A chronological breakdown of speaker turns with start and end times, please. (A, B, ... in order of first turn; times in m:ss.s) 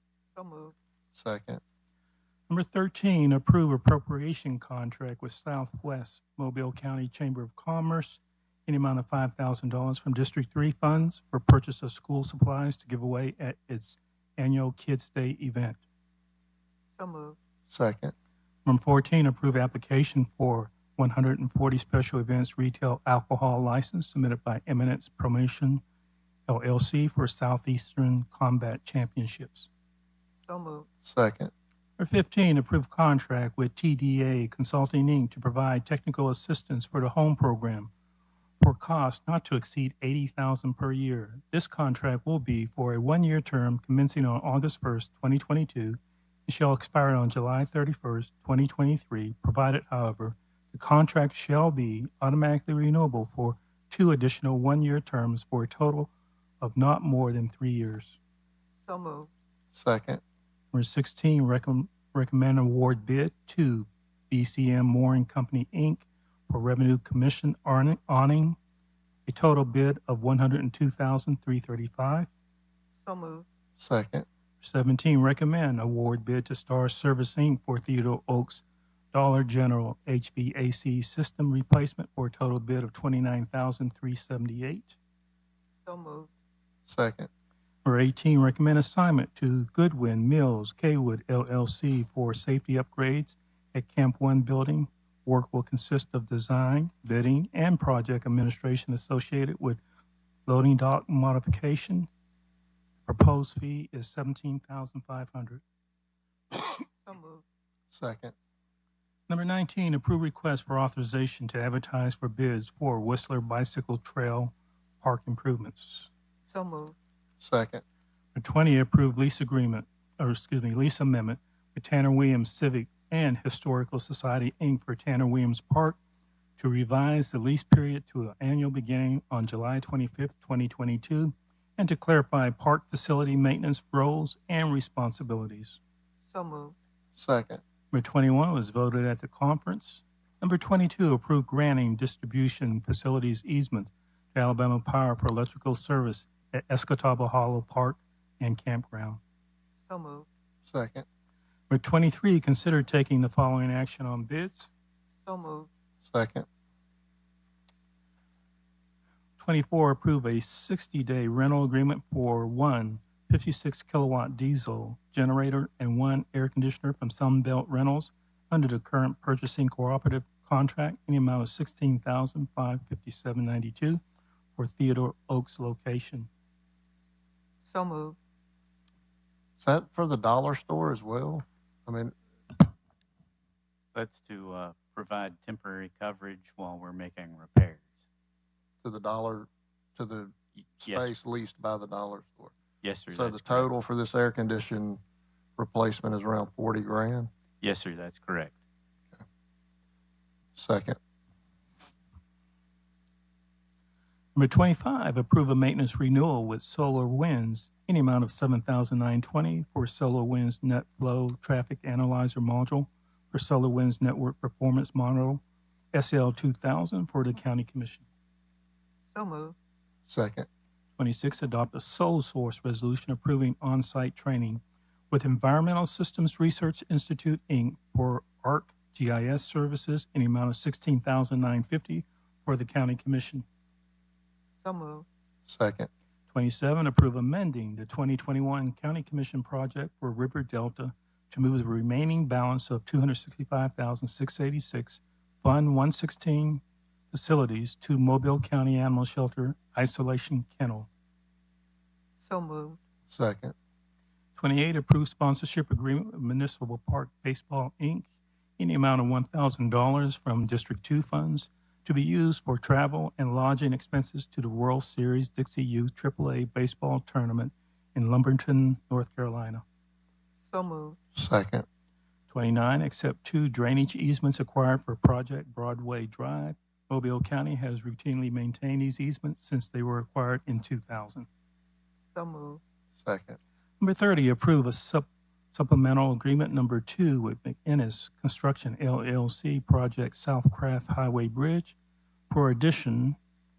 0:00.3-0:00.7 A
0:01.1-0:01.6 B
0:02.5-0:15.8 C
0:17.0-0:17.4 A
0:17.7-0:18.1 B
0:18.6-0:25.8 C
0:26.5-0:29.7 C
0:30.4-0:30.9 A
0:31.0-0:31.5 B
0:32.0-0:37.9 C
0:38.6-0:58.2 C
0:58.8-0:59.3 A
0:59.7-1:00.2 B
1:00.7-1:08.6 C
1:09.3-1:12.3 C
1:13.0-1:13.4 A
1:13.8-1:14.2 B
1:14.6-1:25.0 C
1:25.8-1:26.3 A
1:26.9-1:27.3 B
1:27.8-1:39.8 C
1:40.4-1:42.1 C
1:43.0-1:45.6 C
1:47.0-1:47.4 A
1:47.9-1:48.3 B
1:49.3-1:56.1 C
1:56.5-1:56.9 A
1:57.4-1:57.8 B
1:58.3-2:06.0 C
2:06.6-2:15.8 C
2:16.3-2:16.8 A
2:17.2-2:17.6 B
2:17.9-2:29.2 C
2:29.9-2:30.3 A
2:30.7-2:31.0 B
2:31.7-2:34.7 C
2:35.2-2:35.7 A
2:36.0-2:36.4 B
2:39.4-2:54.0 C
2:54.6-2:56.3 C
2:57.6-2:58.2 A
2:59.6-3:02.1 B
3:03.9-3:07.8 D
3:08.8-3:12.5 B
3:10.8-3:11.1 D
3:12.8-3:13.7 D
3:13.1-3:15.0 B
3:15.6-3:17.3 B
3:17.6-3:18.5 D
3:20.6-3:21.0 B
3:24.3-3:35.4 C
3:35.9-3:38.0 C
3:39.1-3:39.6 A
3:40.1-3:40.5 B
3:41.0-3:53.4 C
3:54.6-3:55.0 A
3:55.5-3:55.9 B
3:56.3-4:10.9 C
4:12.2-4:12.8 A
4:13.1-4:13.5 B
4:14.4-4:29.6 C
4:30.5-4:31.0 A
4:31.1-4:31.6 B
4:32.3-4:41.3 C
4:42.1-4:42.6 A
4:43.0-4:43.4 B
4:43.8-4:51.8 C
4:52.3-4:53.2 C